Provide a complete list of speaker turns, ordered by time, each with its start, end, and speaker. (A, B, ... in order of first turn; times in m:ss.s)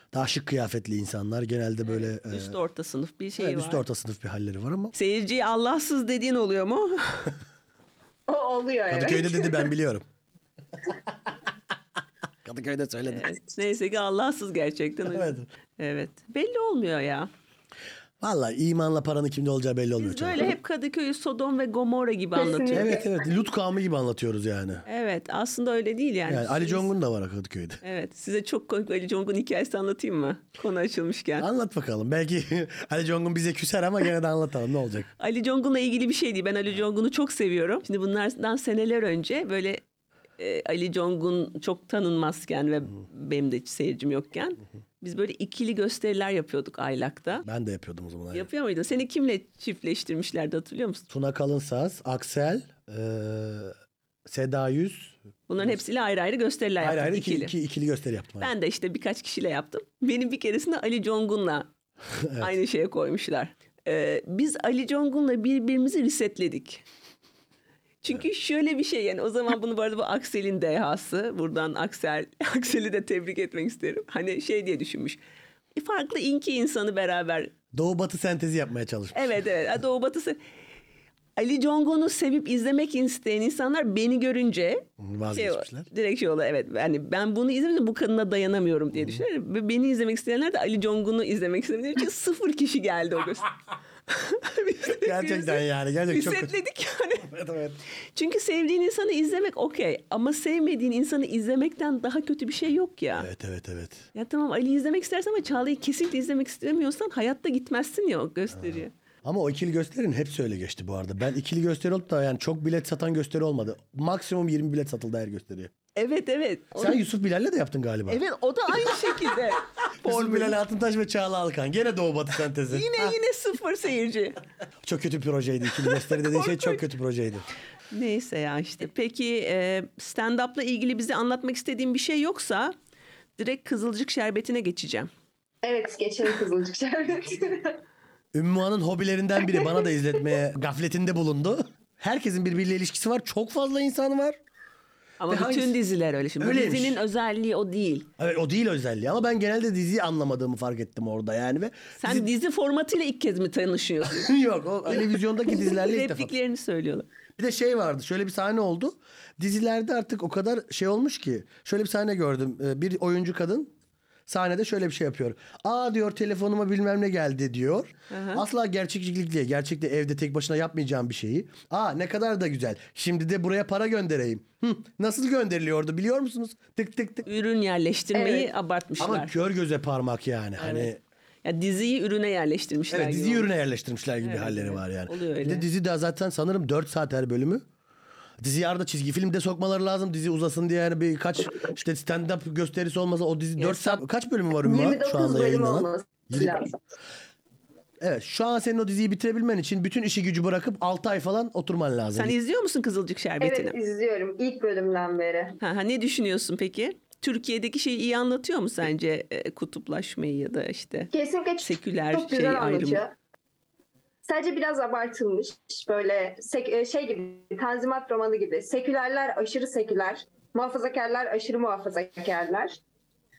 0:00.1-0:02.6 A
0:01.8-0:03.8 B
0:03.4-0:04.9 A
0:04.9-0:07.3 B
0:08.3-0:09.7 C
0:08.9-0:10.0 A
0:12.4-0:13.3 A
0:13.1-0:17.3 B
0:15.0-0:15.5 A
0:18.2-0:20.6 A
0:20.0-0:22.9 B
0:22.4-0:23.2 C
0:22.7-0:24.8 A
0:24.8-0:26.9 B
0:26.3-0:27.8 A
0:27.8-0:31.4 B
0:31.4-0:35.1 A
0:35.2-0:39.8 B
0:40.4-0:47.4 B
0:47.4-0:48.5 A
0:48.3-0:51.0 B
0:51.1-0:53.7 A
0:54.2-0:55.8 A
0:55.5-0:57.5 B
0:56.8-0:58.5 A
0:58.4-1:01.7 B
1:02.1-1:02.5 A
1:02.4-1:06.8 B
1:08.0-1:15.2 B
1:15.7-1:17.5 B
1:17.7-1:19.4 A
1:19.1-1:20.4 B
1:21.4-1:33.5 B
1:25.0-1:25.9 A
1:28.9-1:29.2 A
1:34.1-1:37.3 B
1:34.8-1:36.5 A
1:37.2-1:37.8 A
1:38.1-1:43.3 B
1:43.2-1:44.0 A
1:44.1-1:48.9 B
1:48.5-1:55.7 A
1:56.0-1:57.0 B
1:56.8-1:58.2 A
1:58.1-2:00.6 B
2:00.0-2:03.1 A
2:02.7-2:04.4 B
2:04.8-2:07.4 A
2:05.9-2:06.8 B
2:07.9-2:12.7 B
2:13.4-2:15.1 B
2:15.6-2:17.8 C
2:18.3-2:24.4 A
2:19.5-2:19.8 C
2:25.2-2:28.1 B
2:25.3-2:25.8 A
2:26.4-2:27.0 A
2:28.2-2:32.3 A
2:32.0-2:34.3 B
2:34.1-2:36.3 A
2:35.5-2:37.1 B
2:37.4-2:43.7 A
2:44.3-2:57.2 A
2:48.1-2:48.4 B
2:57.2-2:59.3 B
2:58.1-2:58.5 C
2:59.0-3:01.0 A
3:00.6-3:00.9 B
3:01.4-3:03.5 B
3:02.9-3:07.6 A
3:04.2-3:05.6 B
3:08.4-3:16.5 A
3:13.6-3:14.0 B
3:14.6-3:16.7 C
3:18.0-3:22.3 A
3:22.1-3:23.7 B
3:23.4-3:25.6 C
3:25.6-3:31.1 B
3:31.1-3:33.1 C
3:31.6-3:33.0 B
3:34.2-3:42.8 C